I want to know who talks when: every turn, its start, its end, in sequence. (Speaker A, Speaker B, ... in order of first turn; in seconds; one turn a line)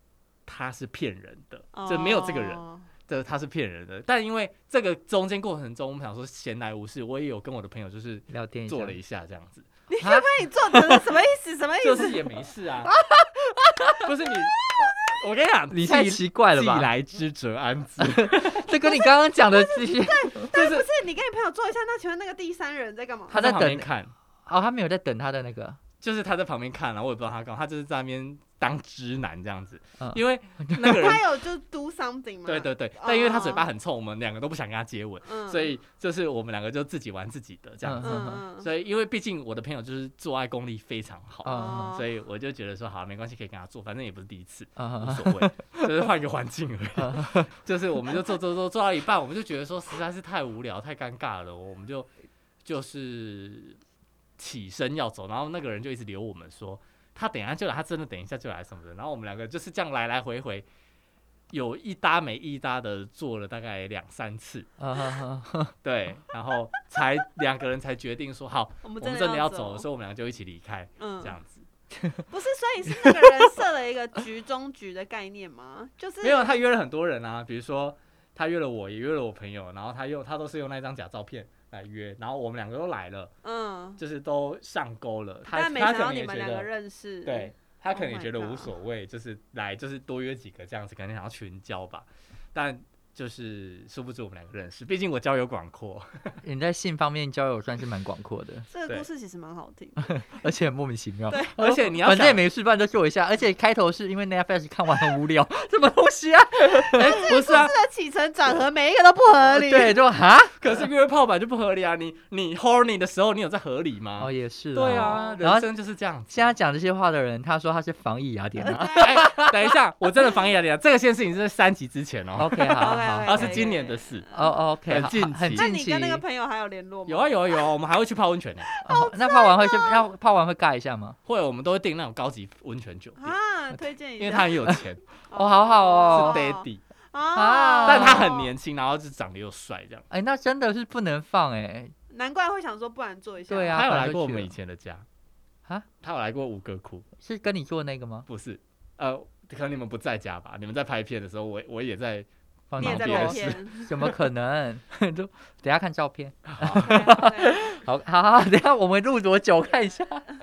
Speaker A: 0.5-9.7
Speaker B: 1.7-2.9
Speaker C: 8.3-9.0
Speaker B: 9.9-12.2
Speaker C: 10.0-11.0
Speaker A: 11.8-12.9
Speaker A: 13.9-18.9
Speaker C: 15.7-16.9
Speaker C: 18.0-20.5
Speaker B: 19.5-23.4
Speaker A: 20.5-20.9
Speaker C: 23.3-23.9
Speaker A: 23.3-24.1
Speaker C: 24.4-25.8
Speaker A: 26.0-31.3
Speaker C: 30.0-31.1
Speaker B: 30.8-33.6
Speaker A: 32.5-52.1
Speaker B: 35.2-35.7
Speaker C: 37.8-38.4
Speaker B: 38.0-38.7
Speaker C: 41.4-41.9
Speaker B: 41.5-42.0
Speaker C: 44.8-45.9
Speaker C: 47.0-47.5
Speaker A: 52.6-53.8
Speaker A: 54.4-60.6
Speaker A: 61.5-64.7
Speaker C: 64.8-65.7
Speaker A: 65.8-71.7
Speaker B: 68.8-69.8
Speaker B: 71.0-71.3
Speaker C: 72.0-72.2
Speaker B: 72.3-76.5
Speaker C: 73.0-73.4
Speaker A: 76.2-83.3
Speaker B: 83.4-84.0
Speaker A: 84.0-86.7
Speaker B: 85.5-88.7
Speaker A: 87.2-96.4
Speaker C: 96.4-98.7
Speaker B: 98.7-100.2
Speaker C: 100.0-107.2
Speaker B: 101.3-101.5
Speaker A: 101.6-102.4
Speaker A: 107.0-107.7
Speaker B: 107.0-110.0
Speaker C: 109.5-110.5
Speaker A: 110.6-116.5
Speaker C: 114.2-115.7
Speaker B: 114.9-115.4
Speaker C: 116.3-119.5
Speaker B: 118.6-119.6
Speaker A: 118.9-124.3
Speaker C: 122.4-123.7
Speaker B: 122.8-124.5
Speaker C: 124.3-126.2
Speaker A: 124.8-125.6
Speaker B: 125.5-127.6
Speaker A: 127.1-128.7
Speaker B: 128.7-130.1
Speaker C: 128.8-131.2
Speaker A: 131.2-133.3
Speaker B: 133.2-134.5
Speaker A: 134.2-135.0
Speaker B: 135.3-138.5
Speaker C: 135.3-136.4
Speaker A: 136.1-136.8
Speaker C: 137.3-138.3
Speaker A: 137.8-140.1
Speaker C: 140.1-141.9
Speaker B: 142.1-143.9
Speaker C: 143.5-144.5
Speaker A: 143.7-145.1
Speaker A: 146.0-147.1
Speaker C: 147.2-148.3
Speaker A: 148.3-154.1
Speaker C: 152.7-160.2
Speaker B: 152.8-153.9
Speaker A: 156.5-157.0
Speaker B: 156.7-157.6